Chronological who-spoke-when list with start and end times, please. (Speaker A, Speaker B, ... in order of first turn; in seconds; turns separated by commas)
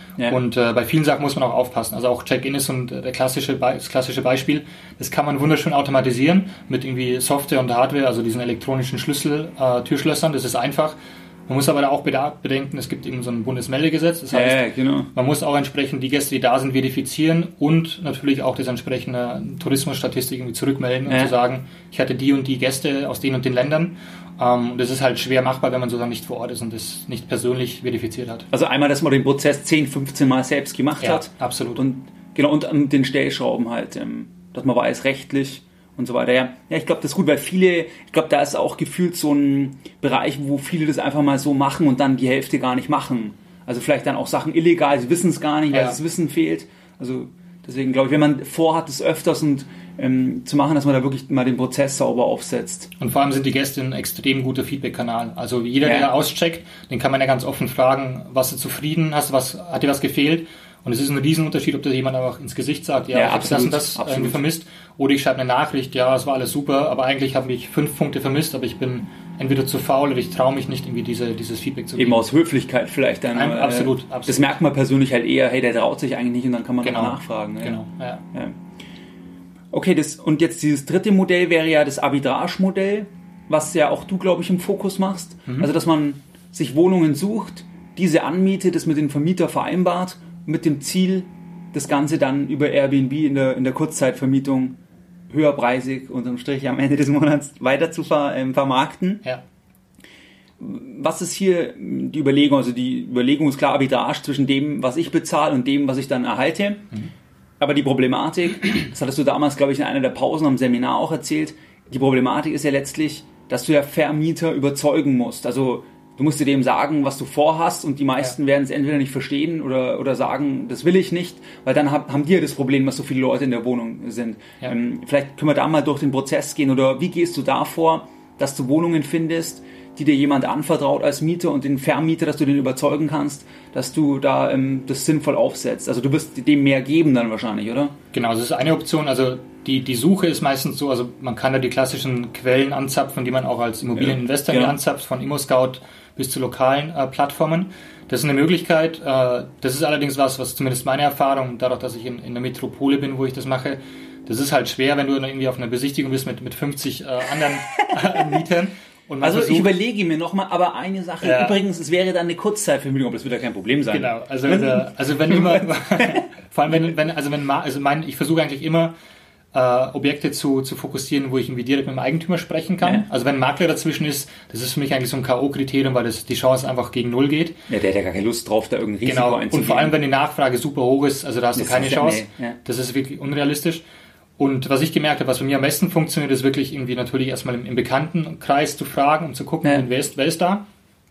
Speaker A: 0.3-28.5, Speaker B: 14.3-15.1, Speaker B: 21.1-21.3, Speaker B: 28.5-52.9, Speaker A: 31.0-31.8, Speaker A: 53.0-72.2, Speaker B: 55.8-56.1, Speaker B: 63.1-64.4, Speaker B: 72.0-77.8, Speaker A: 73.3-74.5, Speaker A: 76.8-78.2, Speaker B: 79.7-94.8, Speaker B: 95.3-99.2, Speaker B: 100.6-106.9, Speaker B: 107.6-137.9, Speaker A: 138.1-159.7, Speaker B: 144.0-144.8, Speaker B: 157.7-158.2, Speaker B: 159.2-165.6, Speaker A: 161.2-161.6, Speaker A: 163.9-168.9, Speaker A: 169.5-177.6, Speaker B: 177.7-179.9, Speaker A: 179.0-183.8, Speaker B: 181.5-182.6, Speaker A: 184.4-190.6